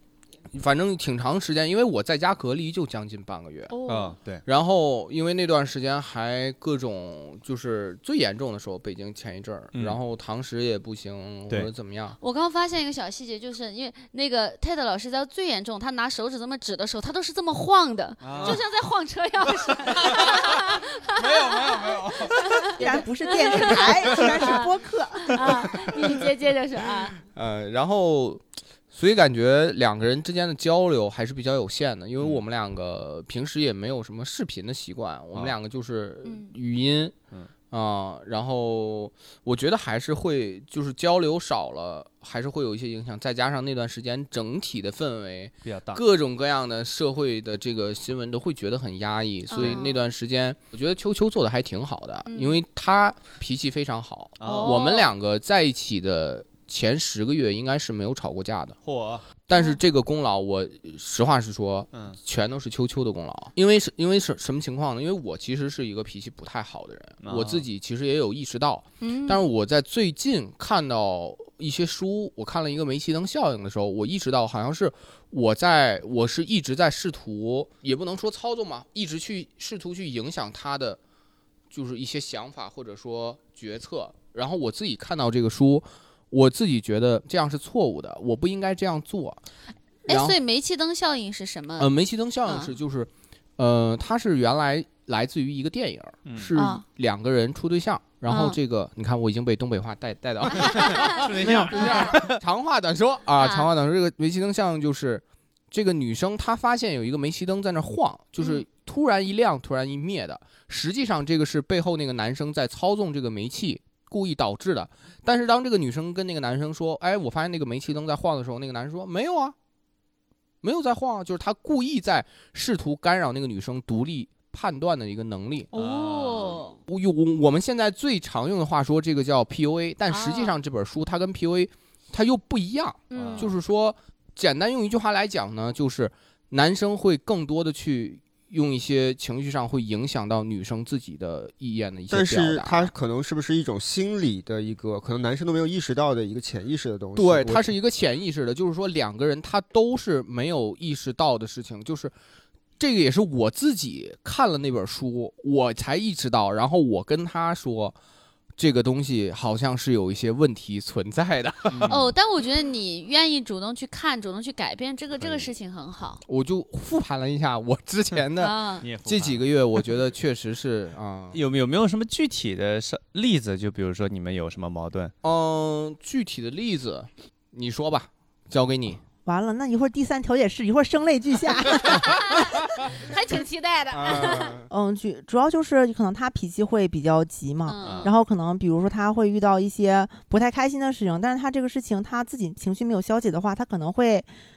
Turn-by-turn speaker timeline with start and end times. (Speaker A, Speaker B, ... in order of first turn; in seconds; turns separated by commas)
Speaker A: 0.5-3.7, Speaker B: 3.7-4.2, Speaker C: 3.9-4.4, Speaker A: 4.5-12.2, Speaker C: 9.7-10.0, Speaker B: 12.2-27.2, Speaker C: 18.2-18.6, Speaker A: 18.3-18.6, Speaker A: 20.0-20.6, Speaker A: 21.2-23.1, Speaker D: 22.8-25.4, Speaker A: 23.6-24.3, Speaker A: 27.4-37.1, Speaker B: 36.2-36.5, Speaker A: 37.7-58.8, Speaker C: 45.6-46.0, Speaker B: 49.5-50.0, Speaker B: 52.3-52.6, Speaker C: 54.4-54.8, Speaker B: 54.4-55.1, Speaker C: 58.8-59.3, Speaker A: 59.5-81.0, Speaker B: 59.5-59.8, Speaker C: 67.2-67.7, Speaker B: 69.0-69.5, Speaker A: 81.7-89.4, Speaker A: 90.1-90.4, Speaker B: 90.1-91.9, Speaker A: 91.8-119.5, Speaker B: 92.5-92.7, Speaker C: 96.2-96.5, Speaker B: 96.6-96.8, Speaker B: 98.3-98.6, Speaker B: 100.6-101.2, Speaker C: 100.8-102.3, Speaker D: 101.4-102.3, Speaker B: 103.4-103.7, Speaker B: 108.4-108.6, Speaker A: 120.6-125.7, Speaker B: 125.7-126.8, Speaker C: 125.7-126.7, Speaker A: 126.9-142.9, Speaker B: 130.1-130.6, Speaker B: 133.1-133.5, Speaker C: 133.1-133.5, Speaker E: 142.1-147.7, Speaker A: 147.2-152.1, Speaker A: 152.8-157.9, Speaker A: 158.6-161.9, Speaker C: 161.7-162.1, Speaker B: 161.8-166.2, Speaker C: 165.2-165.5, Speaker A: 166.3-171.4, Speaker B: 168.4-168.9, Speaker C: 168.8-169.4, Speaker C: 171.3-175.1, Speaker A: 175.2-179.0, Speaker D: 179.2-183.0, Speaker B: 183.0-184.6, Speaker A: 183.9-184.7, Speaker D: 184.7-194.3, Speaker B: 187.7-188.1, Speaker C: 187.8-188.1